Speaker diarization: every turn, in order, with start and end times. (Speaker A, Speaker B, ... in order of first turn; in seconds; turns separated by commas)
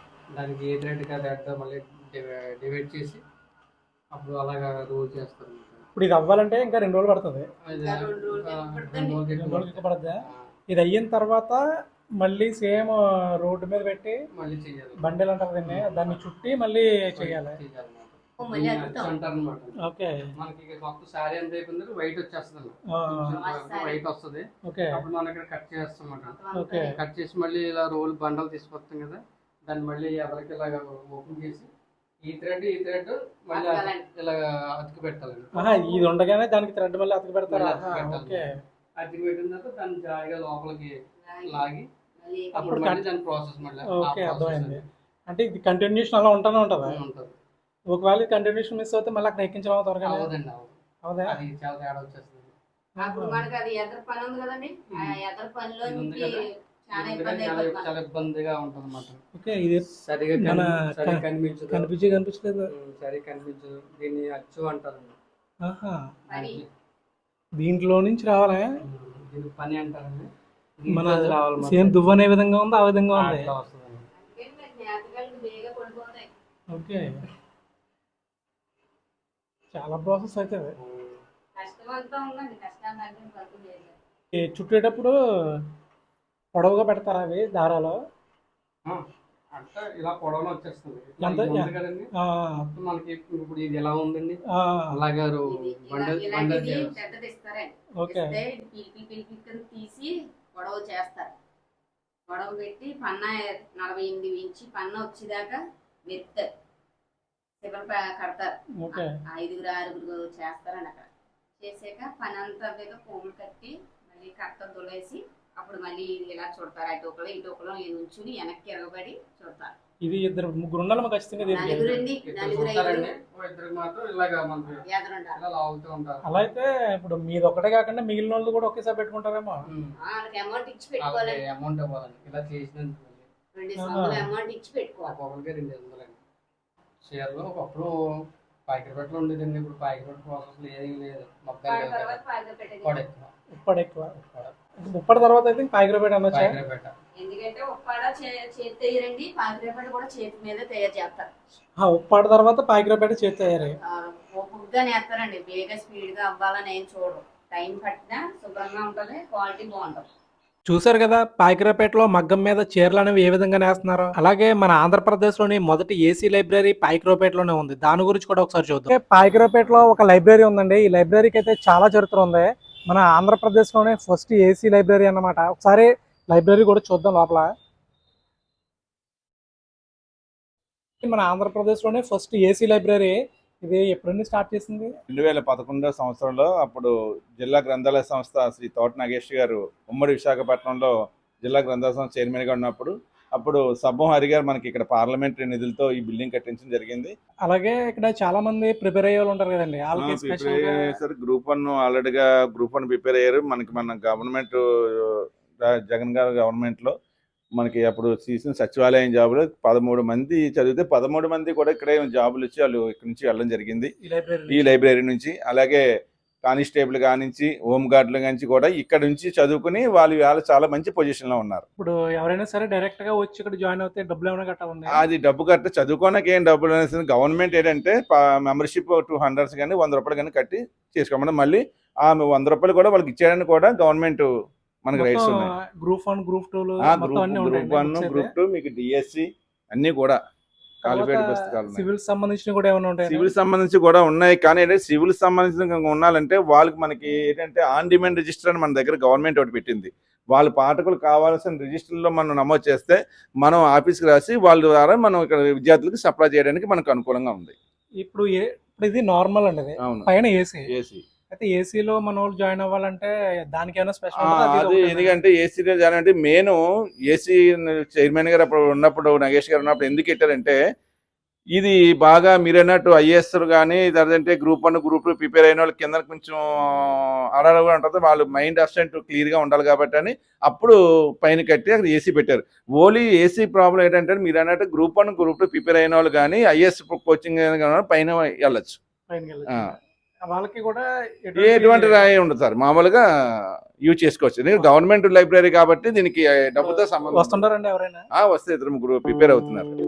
Speaker A: 0.3-3.2, Speaker A: 4.1-5.9, Speaker B: 6.0-7.5, Speaker A: 7.6-10.5, Speaker C: 7.7-9.2, Speaker B: 9.3-11.6, Speaker B: 12.2-14.2, Speaker A: 14.3-16.3, Speaker B: 15.0-17.6, Speaker A: 17.1-19.8, Speaker C: 18.4-19.1, Speaker B: 19.8-20.3, Speaker A: 20.4-31.7, Speaker B: 23.0-23.4, Speaker C: 23.3-24.0, Speaker B: 24.6-25.0, Speaker C: 26.3-26.9, Speaker B: 26.5-26.9, Speaker A: 32.2-36.1, Speaker C: 33.5-34.0, Speaker B: 35.5-38.5, Speaker A: 37.5-38.5, Speaker A: 39.0-40.9, Speaker C: 41.2-42.8, Speaker A: 41.5-41.9, Speaker B: 42.5-43.0, Speaker A: 42.6-44.8, Speaker B: 43.8-47.0, Speaker A: 46.8-47.4, Speaker B: 47.9-50.3, Speaker A: 50.0-52.5, Speaker B: 51.0-51.4, Speaker C: 53.0-57.9, Speaker B: 53.0-53.4, Speaker A: 55.8-56.4, Speaker A: 56.9-59.2, Speaker B: 59.3-59.8, Speaker A: 60.0-61.9, Speaker B: 60.4-62.7, Speaker A: 62.7-65.2, Speaker B: 65.7-66.0, Speaker C: 66.3-66.6, Speaker A: 66.3-66.7, Speaker B: 67.6-68.7, Speaker A: 68.8-70.3, Speaker A: 70.8-72.0, Speaker B: 70.9-73.5, Speaker A: 73.1-74.1, Speaker C: 74.2-76.3, Speaker B: 76.7-77.1, Speaker B: 79.7-80.7, Speaker A: 80.8-81.2, Speaker C: 81.5-84.0, Speaker B: 84.3-85.6, Speaker B: 86.5-88.0, Speaker A: 88.8-92.1, Speaker B: 91.2-92.7, Speaker A: 92.7-97.0, Speaker B: 94.5-95.0, Speaker C: 95.4-101.3, Speaker B: 98.0-98.4, Speaker C: 102.3-106.5, Speaker C: 107.6-119.8, Speaker B: 108.8-109.1, Speaker B: 120.0-122.0, Speaker A: 121.4-126.5, Speaker C: 121.5-123.1, Speaker C: 124.8-125.4, Speaker B: 126.2-129.7, Speaker A: 129.7-129.9, Speaker C: 130.0-131.4, Speaker A: 131.0-133.3, Speaker C: 133.5-135.2, Speaker B: 133.8-134.3, Speaker A: 135.1-136.2, Speaker A: 137.0-137.9, Speaker A: 138.7-142.2, Speaker C: 141.7-143.0, Speaker A: 142.8-143.3, Speaker B: 143.5-144.2, Speaker A: 144.2-144.5, Speaker B: 144.8-146.6, Speaker A: 146.3-146.9, Speaker C: 147.1-151.3, Speaker B: 151.8-153.7, Speaker C: 153.6-160.1, Speaker D: 160.7-168.9, Speaker B: 168.9-177.5, Speaker B: 181.0-184.9, Speaker E: 185.1-197.1, Speaker B: 197.5-200.8, Speaker E: 199.9-206.9, Speaker D: 200.0-200.6, Speaker E: 207.6-213.9, Speaker D: 214.2-214.6, Speaker E: 214.5-215.8, Speaker E: 216.4-221.7, Speaker B: 222.2-224.9, Speaker D: 224.3-224.8, Speaker E: 224.9-234.3, Speaker E: 234.8-235.5, Speaker D: 235.0-235.4, Speaker B: 235.8-237.8, Speaker D: 236.0-237.2, Speaker E: 236.8-240.2, Speaker D: 237.8-238.3, Speaker E: 240.8-241.8, Speaker D: 240.9-243.0, Speaker B: 242.0-243.2, Speaker E: 243.0-257.6, Speaker B: 258.0-260.6, Speaker E: 259.8-260.1, Speaker E: 260.7-261.0, Speaker B: 261.3-264.6, Speaker D: 263.9-265.1, Speaker E: 264.1-270.6, Speaker E: 271.5-288.8, Speaker B: 289.1-289.5, Speaker B: 290.3-292.0, Speaker E: 291.4-297.5, Speaker B: 296.7-298.0, Speaker E: 298.1-299.8